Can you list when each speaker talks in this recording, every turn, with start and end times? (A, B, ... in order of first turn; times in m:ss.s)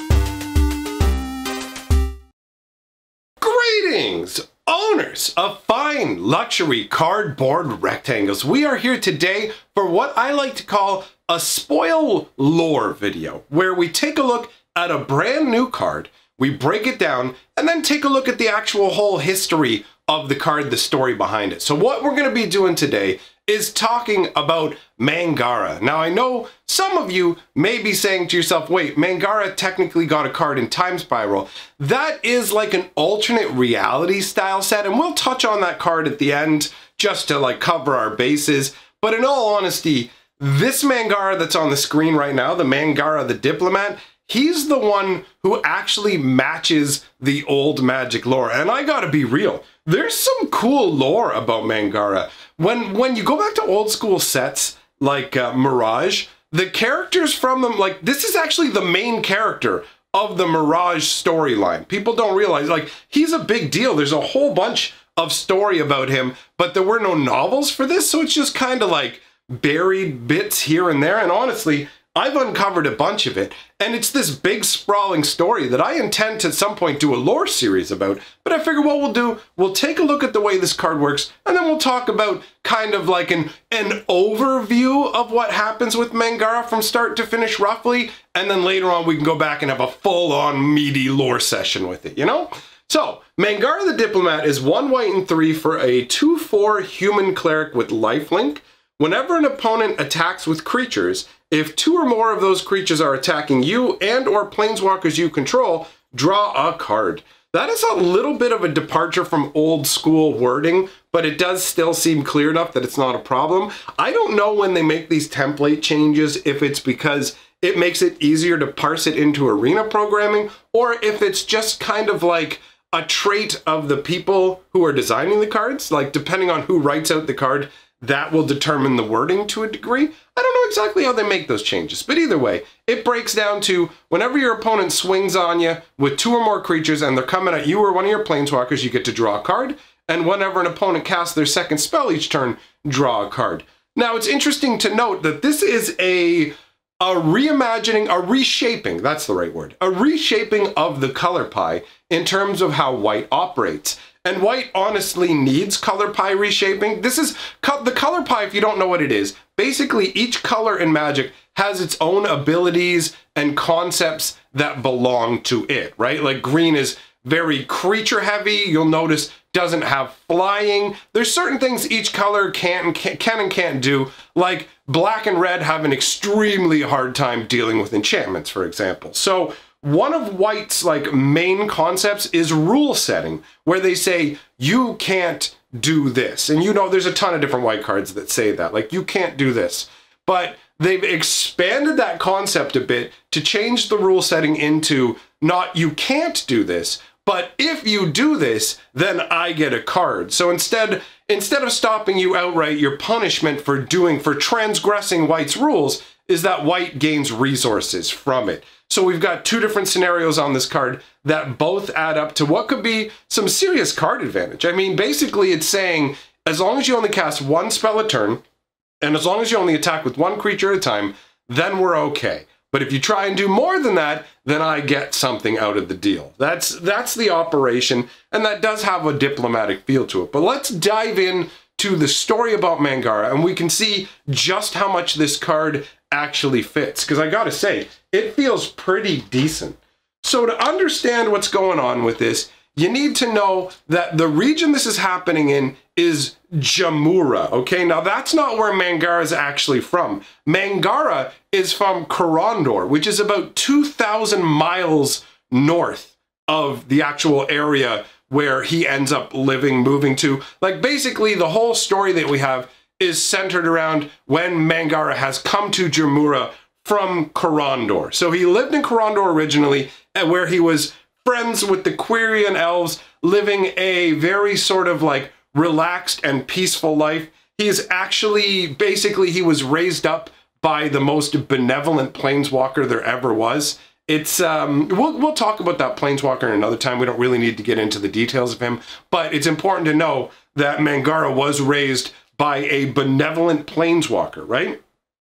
0:03.4-3:38.4 A
3:39.0-4:54.8 A